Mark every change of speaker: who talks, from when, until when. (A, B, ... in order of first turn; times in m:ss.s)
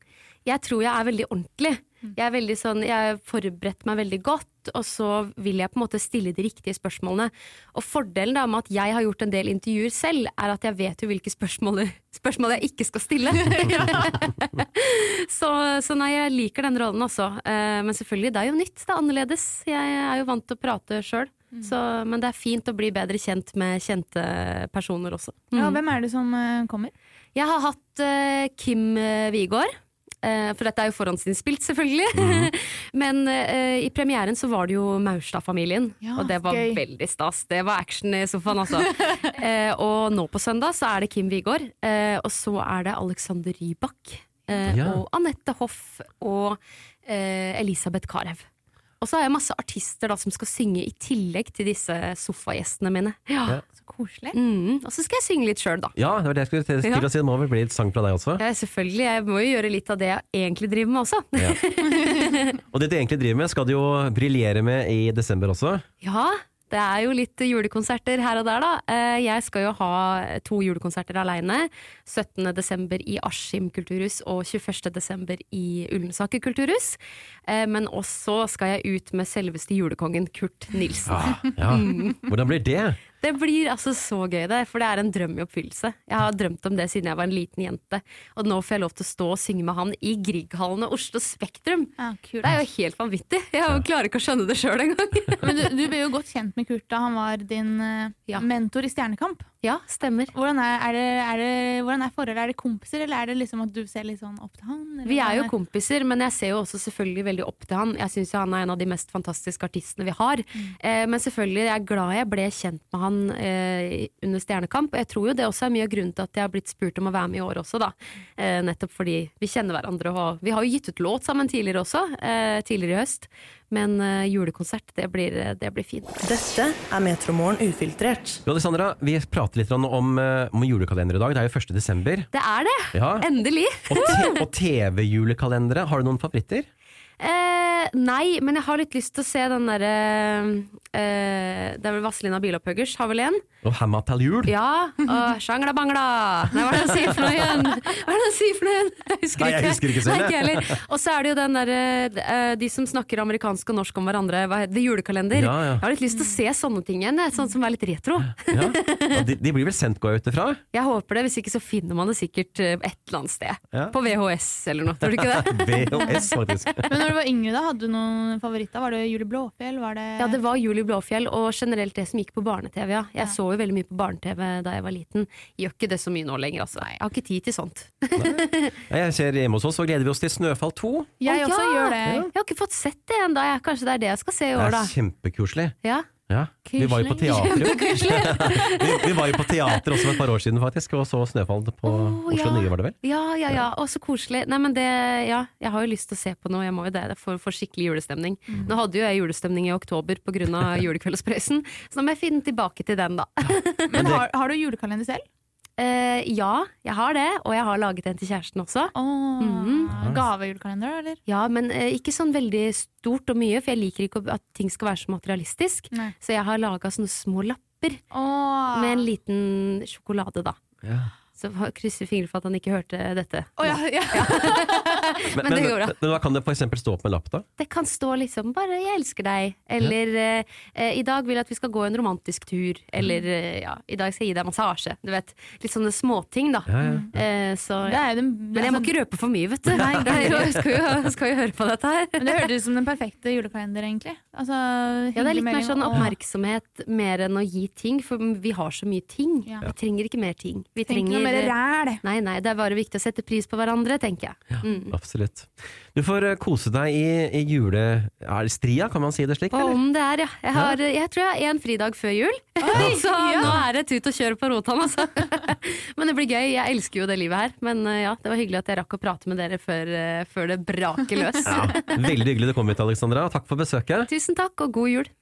0:00.4-0:25.8 A
0:25.5-0:26.9 B
0:27.3-0:48.5 A
0:32.1-0:32.5 C
0:36.0-0:36.8 B
0:44.6-0:45.0 C
0:49.0-0:53.6 A
0:53.6-0:54.4 B
0:54.3-0:56.0 A
0:56.0-0:58.4 C
0:56.8-0:57.1 A
0:58.4-1:02.6 A
1:02.7-1:05.8 C
1:06.0-1:22.3 A
1:21.1-1:23.0 C
1:23.2-1:35.5 A
1:32.0-1:32.5 B
1:35.4-1:39.4 B
1:39.6-1:40.3 A
1:40.3-1:45.5 B
1:45.0-2:06.2 A
2:06.2-2:08.4 D
2:08.4-2:12.3 C
2:12.3-2:14.4 A
2:12.9-2:13.3 C
2:13.8-2:16.7 C
2:17.2-2:23.4 A
2:23.6-2:24.5 C
2:24.4-2:39.2 A
2:29.4-2:30.8 C
2:35.3-2:35.8 C
2:38.5-2:40.6 C
2:40.7-2:46.5 A
2:45.0-2:46.9 C
2:45.9-2:46.2 B
2:46.9-2:50.4 B
2:50.2-2:58.8 A
2:58.1-3:01.2 C
3:01.2-3:02.3 B
3:01.2-3:04.9 A
3:04.5-3:05.8 C
3:05.8-3:06.1 A
3:06.3-3:13.0 C
3:06.7-3:07.8 B
3:07.1-3:10.2 A
3:11.8-3:24.1 A
3:23.9-3:25.2 B
3:23.9-3:24.2 C
3:25.8-3:30.0 A
3:28.9-3:31.2 B
3:29.9-3:30.2 C
3:31.3-3:38.0 A
3:38.1-3:39.0 B
3:38.7-3:40.6 A
3:40.8-3:41.1 C
3:41.3-3:46.0 A
3:43.6-3:45.0 B
3:45.3-3:47.4 C
3:47.6-4:02.5 A
3:56.7-3:57.1 C
3:56.8-3:57.1 B
3:57.8-3:58.9 B
3:59.7-4:00.4 C
3:59.7-4:00.5 B
4:02.2-4:06.1 B
4:05.1-4:14.9 A
4:10.8-4:12.0 B
4:14.9-4:19.8 C
4:19.5-4:32.1 A
4:22.6-4:23.6 B
4:22.7-4:23.6 C
4:31.4-4:34.1 C
4:34.1-4:35.1 A